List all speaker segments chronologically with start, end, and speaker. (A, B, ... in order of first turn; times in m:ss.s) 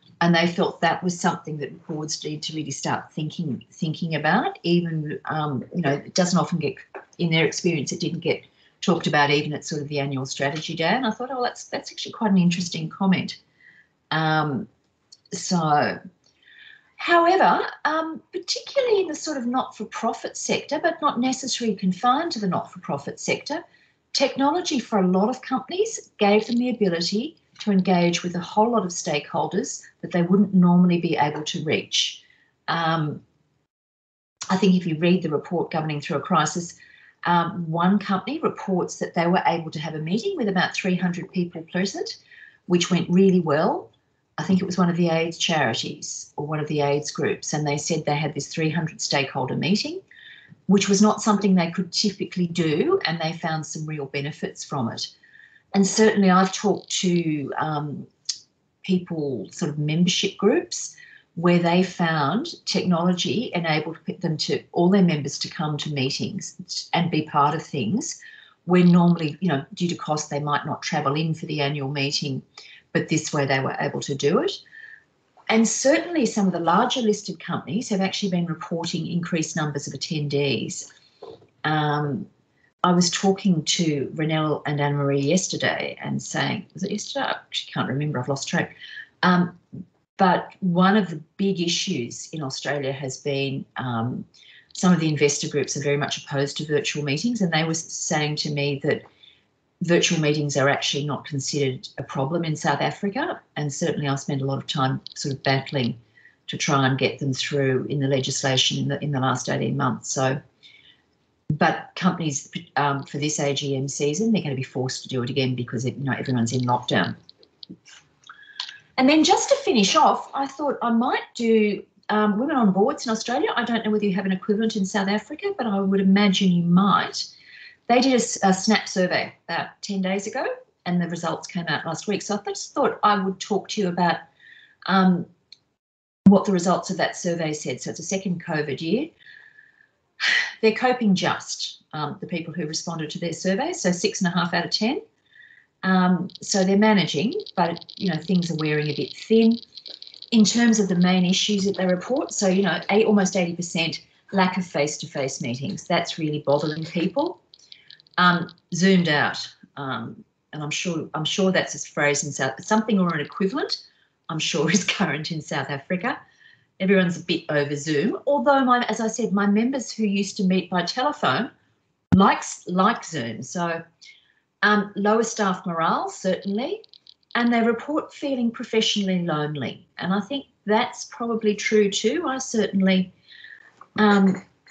0:00.2-0:13.4 A
0:14.1-0:14.7 A
0:15.3-0:16.0 A
0:17.0-0:33.2 A
0:34.5-0:50.0 A
0:50.7-0:55.1 A
0:55.7-0:58.1 A
0:58.8-1:14.6 A
1:15.5-1:20.9 A
1:21.6-1:22.3 A
1:22.8-1:29.6 A
1:30.2-1:39.0 A
1:39.8-1:50.4 A
1:51.5-1:57.2 A
1:59.0-2:07.3 A
2:07.9-2:14.2 A
2:14.8-2:15.3 A
2:16.2-2:19.1 A
2:20.2-2:25.0 A
2:25.8-2:29.6 A
2:30.3-2:37.4 A
2:38.2-2:46.2 A
2:46.8-2:51.5 A
2:52.1-2:53.8 A
2:54.6-2:56.8 A
2:57.3-3:03.1 A
3:04.0-3:04.4 A